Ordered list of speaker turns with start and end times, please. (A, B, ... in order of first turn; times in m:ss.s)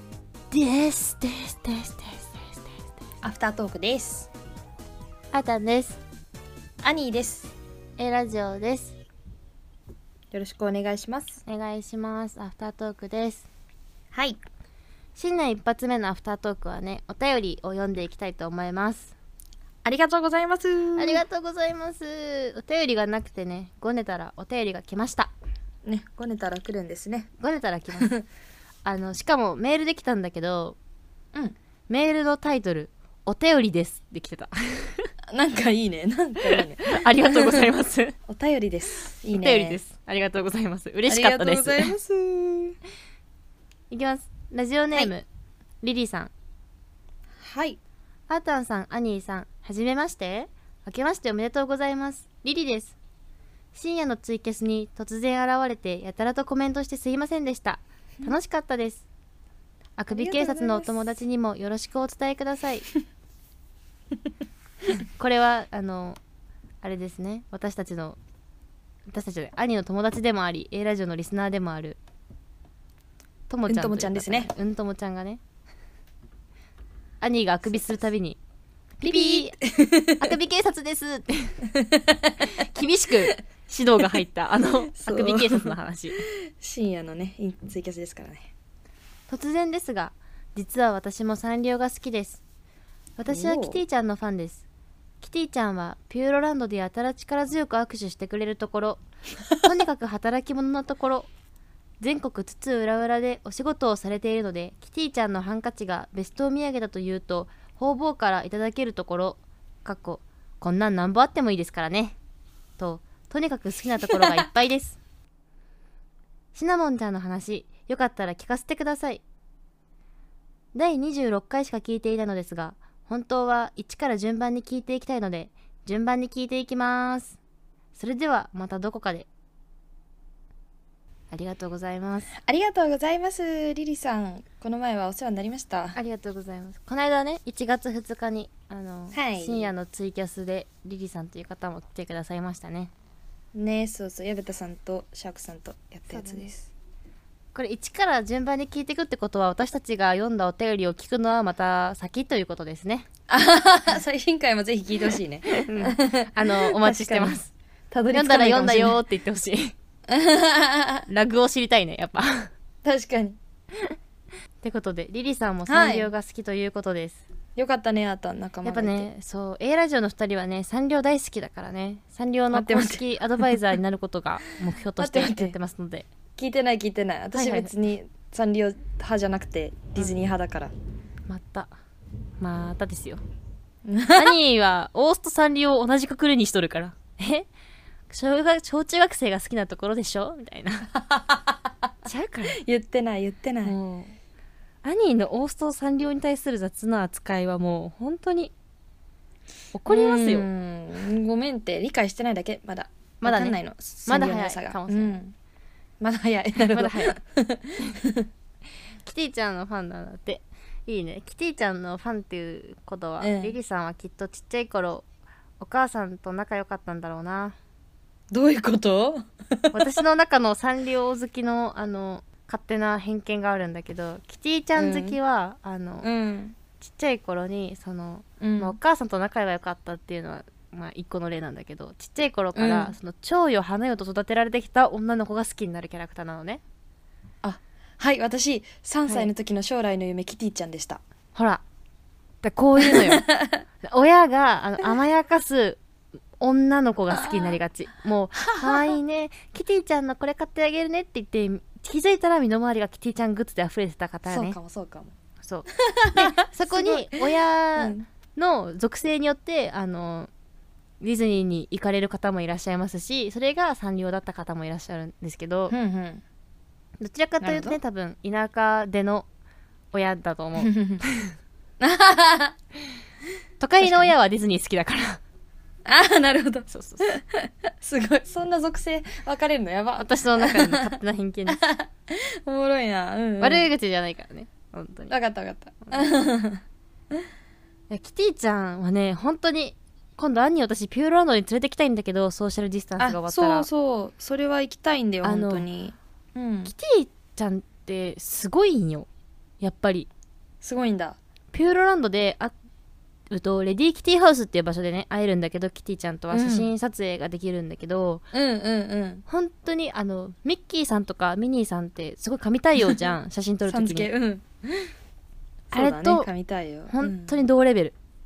0:00.5-0:02.6 A
0:03.2-0:04.3 B
0:05.3-0:06.0 A
0:06.8-0:07.5 B
0:08.0-0:08.9 A
0:10.3-0:11.4 B
0:11.4-0:13.5 A
0:14.1-0:14.4 B
0:15.2-0:19.1 A
0:19.8-0:21.2 B
0:21.0-0:25.3 A
0:25.8-0:27.3 B
0:27.4-0:28.1 A
0:28.0-0:28.2 B
0:28.8-0:30.8 A
0:31.9-0:35.1 A
0:35.3-0:37.7 B
0:36.4-0:38.2 A
0:38.3-0:39.8 B
0:39.3-0:41.9 A
0:41.1-0:42.8 B
0:43.9-0:45.2 A
0:45.8-0:46.3 A
0:47.4-0:47.8 B
0:48.3-0:52.9 A
0:53.7-0:59.0 A
1:00.0-1:02.9 A
1:00.1-1:01.0 B
1:04.9-1:06.2 A
1:06.8-1:08.2 A
1:09.1-1:12.0 A
1:13.5-1:15.4 A
1:13.7-1:14.5 B
1:17.2-1:18.4 A
1:17.7-1:18.0 B
1:19.0-1:19.6 A
1:19.0-1:20.3 B
1:20.2-1:21.6 A
1:21.7-1:22.5 B
1:22.5-1:26.2 A
1:24.9-1:28.5 B
1:29.3-1:32.4 A
1:33.2-1:34.6 A
1:33.3-1:33.8 B
1:35.2-1:39.0 A
1:39.6-1:41.3 A
1:42.0-1:52.2 A
1:52.8-1:55.0 A
1:56.5-1:59.2 A
2:00.7-2:07.4 A
2:07.9-2:09.3 A
2:11.3-2:12.3 A
2:12.4-2:16.0 B
2:16.0-2:22.9 A
2:19.1-2:19.7 B
2:23.5-2:26.7 B
2:26.1-2:26.5 A
2:27.5-2:33.1 A
2:33.3-2:37.4 B
2:35.6-2:37.5 A
2:37.9-2:39.0 B
2:38.1-2:39.7 A
2:40.1-2:41.0 B
2:41.1-2:42.5 A
2:42.8-2:43.4 B
2:44.6-2:47.2 A
2:45.7-2:46.1 B
2:47.6-2:49.1 B
2:48.6-2:56.1 A
2:52.5-2:53.6 B
2:55.0-2:55.5 B
2:56.4-3:00.7 B
2:57.3-2:57.7 A
3:01.3-3:01.7 A
3:02.4-3:03.2 A
3:03.8-3:04.3 B
3:04.1-3:07.5 A
3:08.1-3:10.9 A
3:10.9-3:11.6 B
3:12.0-3:12.6 A
3:12.5-3:13.7 B
3:13.6-3:14.2 A
3:14.8-3:18.5 A
3:19.7-3:20.5 A
3:19.9-3:25.3 B
3:23.2-3:25.2 A
3:26.0-3:28.2 B
3:26.6-3:27.2 A
3:29.0-3:35.0 A
3:33.2-3:33.5 B
3:35.6-3:37.6 A
3:38.3-3:39.8 B
3:39.7-3:46.1 A
3:44.8-3:45.2 B
3:46.0-3:46.6 B
3:46.8-3:56.6 A
3:48.4-3:48.8 B
3:52.5-3:52.9 B
3:57.4-4:01.0 B
4:01.3-4:01.6 A
4:02.4-4:03.3 A
4:02.8-4:03.6 B
4:03.8-4:05.8 A
4:06.4-4:14.6 A
4:07.1-4:07.6 B
4:08.4-4:08.9 B
4:14.3-4:15.1 B
4:15.4-4:20.3 A
4:15.7-4:18.0 B
4:21.0-4:25.7 A
4:25.7-4:26.2 B
4:27.0-4:29.2 A
4:27.4-4:27.8 B
4:29.9-4:31.3 A
4:30.6-4:31.0 B
4:31.8-4:32.5 B
4:33.6-4:35.2 A
4:33.8-4:34.1 B
4:35.8-4:41.0 B
4:36.7-4:37.2 A
4:40.0-4:41.6 A
4:41.5-4:43.7 B
4:43.4-4:45.1 A
4:45.1-4:46.6 B
4:47.9-4:53.7 A
4:53.0-4:56.7 B
4:55.2-4:55.6 A
4:56.6-4:59.1 A
4:59.6-5:00.1 A
5:00.6-5:01.2 B
5:01.5-5:02.5 A
5:03.3-5:08.2 A
5:06.3-5:06.7 B
5:08.3-5:09.2 B
5:09.3-5:14.1 A
5:13.7-5:14.8 B
5:15.7-5:16.3 A
5:15.7-5:17.4 B
5:16.9-5:17.9 A